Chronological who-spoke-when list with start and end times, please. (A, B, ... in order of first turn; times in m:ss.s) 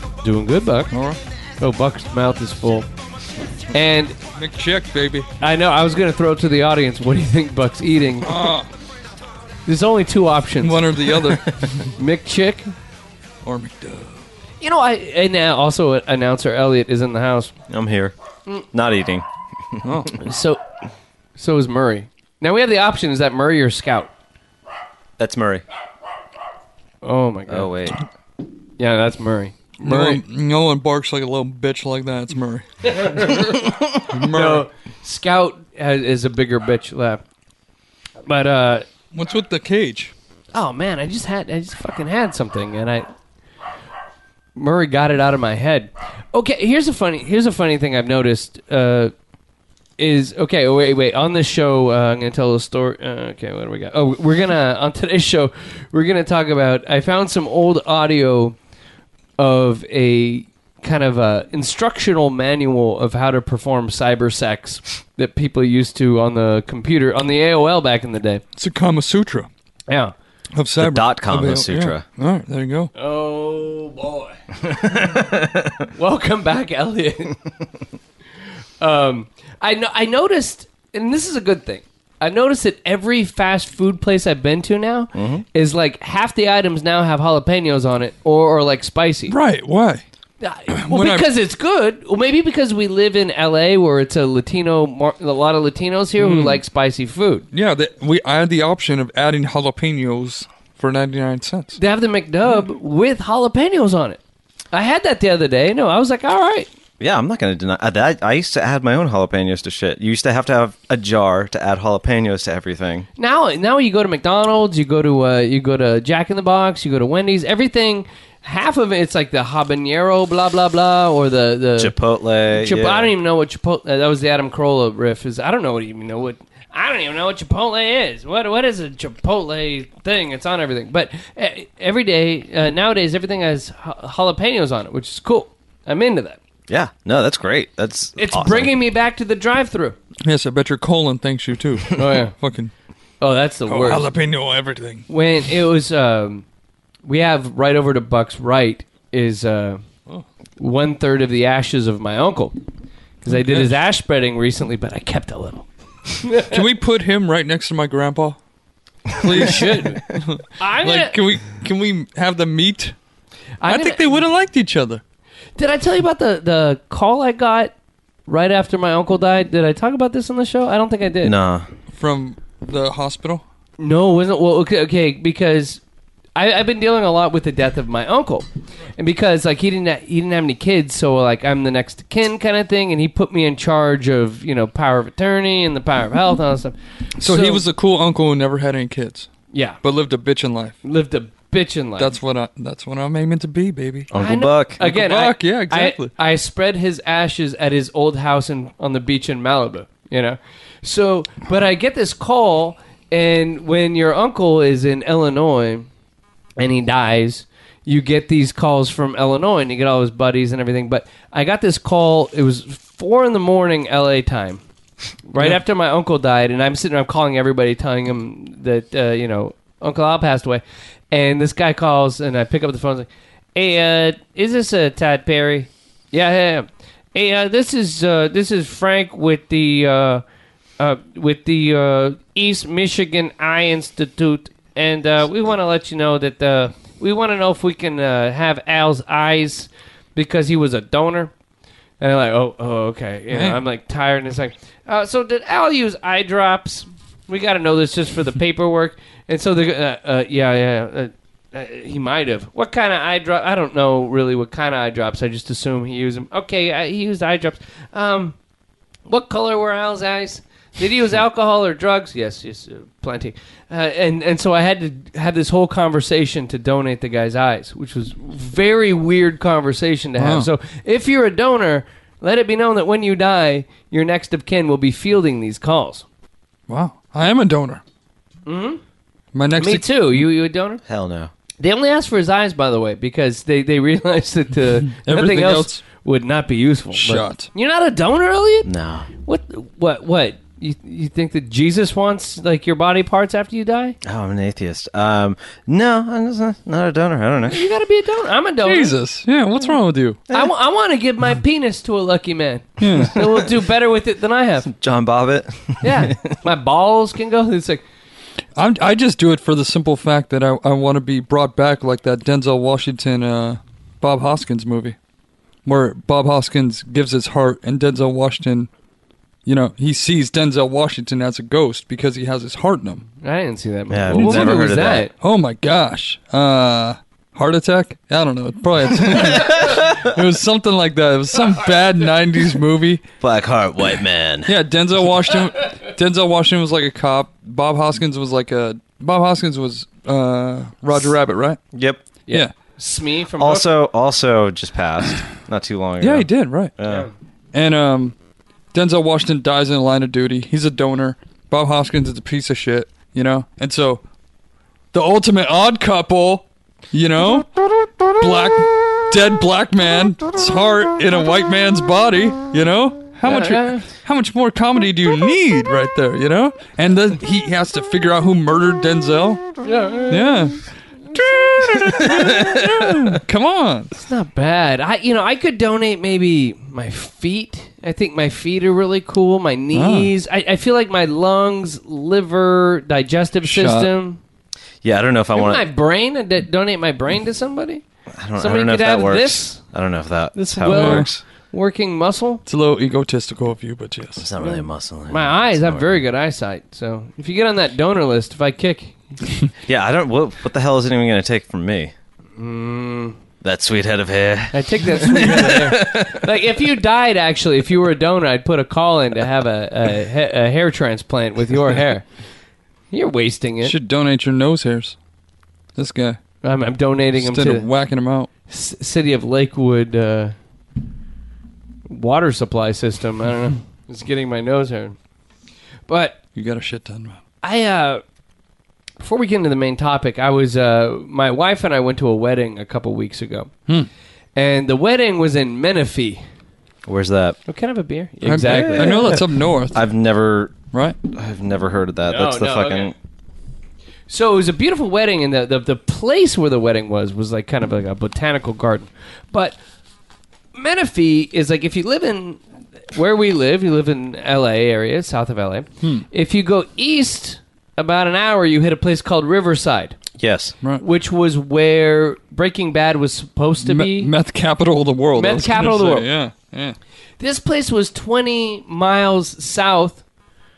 0:00.2-0:00.9 A
0:00.9-0:01.2 B
0:01.6-0:02.9 A
0:03.7-0:04.2 A
0:04.3-0:05.3 B
0:05.4-0:08.4 A
0:08.2-0:08.7 B
0:09.6-0:11.0 A
0:10.6-0:11.9 B
0:11.9-0:12.7 A
0:13.4-0:14.2 B
0:14.6-0:17.5 A
0:17.7-0:18.1 C
0:18.7-0:20.1 C
0:19.8-0:20.2 B
0:20.2-0:20.6 A
0:21.4-0:24.1 A
0:25.2-0:25.6 C
0:27.0-0:27.7 A
0:27.5-0:28.0 C
0:28.8-0:30.2 A
0:29.8-0:33.4 B
0:32.9-0:33.6 A
0:34.1-0:34.6 B
0:34.2-0:37.2 A
0:38.2-0:38.9 A
0:39.1-0:40.1 B
0:40.5-0:43.1 A
0:44.6-0:49.1 A
0:50.0-0:58.6 A
0:59.4-1:08.4 A
1:08.6-1:09.5 B
1:09.9-1:10.1 A
1:10.5-1:12.9 B
1:10.8-1:12.0 C
1:12.9-1:14.3 A
1:14.6-1:15.8 C
1:15.9-1:17.4 A
1:18.8-1:29.4 A
1:25.1-1:25.4 C
1:29.3-1:30.0 B
1:30.4-1:37.4 A
1:30.7-1:31.3 B
1:36.2-1:36.6 B
1:37.5-1:41.8 B
1:41.8-1:44.2 A
1:44.7-1:46.7 A
1:47.0-1:53.1 C
1:53.2-2:01.9 A
2:01.8-2:03.1 C
2:02.5-2:16.4 A
2:16.7-2:18.7 C
2:18.2-2:20.0 A
2:20.2-2:22.7 B
2:22.0-2:22.3 A
2:23.2-2:24.1 A
2:23.7-2:25.0 B
2:25.1-2:26.4 A
2:27.0-2:29.8 A
2:30.6-2:32.6 A
2:33.2-2:36.6 A
2:33.3-2:33.8 B
2:36.5-2:38.4 B
2:39.1-2:42.9 B
2:39.2-2:41.2 A
2:43.6-2:44.0 A
2:43.7-2:45.0 B
2:45.6-2:47.7 A
2:48.3-2:51.4 A
2:51.2-2:51.7 C
2:51.9-2:53.4 B
2:53.8-2:55.8 A
2:56.4-3:07.6 A
3:07.2-3:09.3 B
3:09.5-3:09.8 A
3:09.8-3:10.8 B
3:10.8-3:12.1 A
3:12.0-3:14.1 B
3:14.1-3:14.8 C
3:14.1-3:25.9 A
3:14.8-3:16.1 B
3:26.6-3:34.6 A
3:35.3-3:50.2 A
3:50.8-4:01.3 A
4:02.0-4:18.4 A
4:03.3-4:03.6 B
4:19.1-4:36.0 A
4:30.2-4:30.5 B
4:36.7-4:37.8 B
4:38.4-4:38.8 A
4:39.3-4:40.2 B
4:39.6-4:40.8 A
4:40.8-4:41.3 C
4:41.6-4:48.7 A
4:44.9-4:45.8 B
4:46.9-4:47.5 B
4:48.6-4:49.1 C
4:49.2-4:54.0 A
4:54.0-4:57.7 C
4:57.5-4:58.9 A
4:58.6-5:00.2 B
5:00.3-5:04.7 A
5:02.8-5:03.3 B
5:04.6-5:06.3 C
5:05.8-5:07.8 A
5:08.6-5:15.0 B
5:15.6-5:18.7 B
5:19.4-5:23.0 B
5:23.2-5:25.1 A
5:23.9-5:25.1 C
5:24.1-5:24.5 B
5:25.2-5:33.0 B
5:29.2-5:29.8 C
5:33.2-5:34.5 C
5:34.5-5:41.6 B
5:41.7-5:42.0 C
5:42.3-5:43.7 A
5:43.4-5:47.1 C
5:46.0-5:46.7 B
5:46.8-5:47.1 A
5:47.5-5:48.2 B
5:48.7-5:54.0 B
5:54.9-5:57.5 B
5:58.2-6:09.4 B
6:03.2-6:03.8 A
6:09.6-6:10.5 A
6:10.1-6:13.9 B
6:11.1-6:12.2 A
6:11.6-6:13.2 C
6:14.0-6:24.2 A
6:19.7-6:20.1 B
6:23.4-6:23.9 B
6:24.8-6:25.6 C
6:25.3-6:27.8 A
6:28.1-6:31.2 C
6:28.4-6:29.6 A
6:30.3-6:32.4 A
6:30.7-6:31.1 B
6:32.4-6:34.2 B
6:34.2-6:36.0 C
6:34.4-6:39.2 A
6:39.7-6:41.9 C
6:42.4-6:43.2 A
6:43.4-6:46.3 C
6:44.5-6:52.1 A
6:52.9-6:53.7 A
6:53.6-6:55.0 B
6:55.8-6:56.2 B
6:56.4-6:57.7 A
6:57.2-6:58.3 B
6:58.5-7:00.3 A
7:01.9-7:05.0 A
7:05.9-7:06.2 A
7:06.3-7:07.2 B
7:07.4-7:08.0 A
7:09.0-7:13.5 A
7:14.4-7:16.2 A
7:16.8-7:17.4 C
7:17.5-7:19.0 A
7:18.2-7:19.8 B
7:18.4-7:22.9 C
7:20.7-7:21.0 B
7:22.0-7:22.9 A
7:24.1-7:29.6 A
7:30.5-7:32.4 A
7:32.9-7:40.0 A
7:40.2-7:40.5 C
7:40.8-7:44.1 A
7:43.6-7:46.8 B
7:45.2-7:46.1 A
7:47.2-7:50.0 A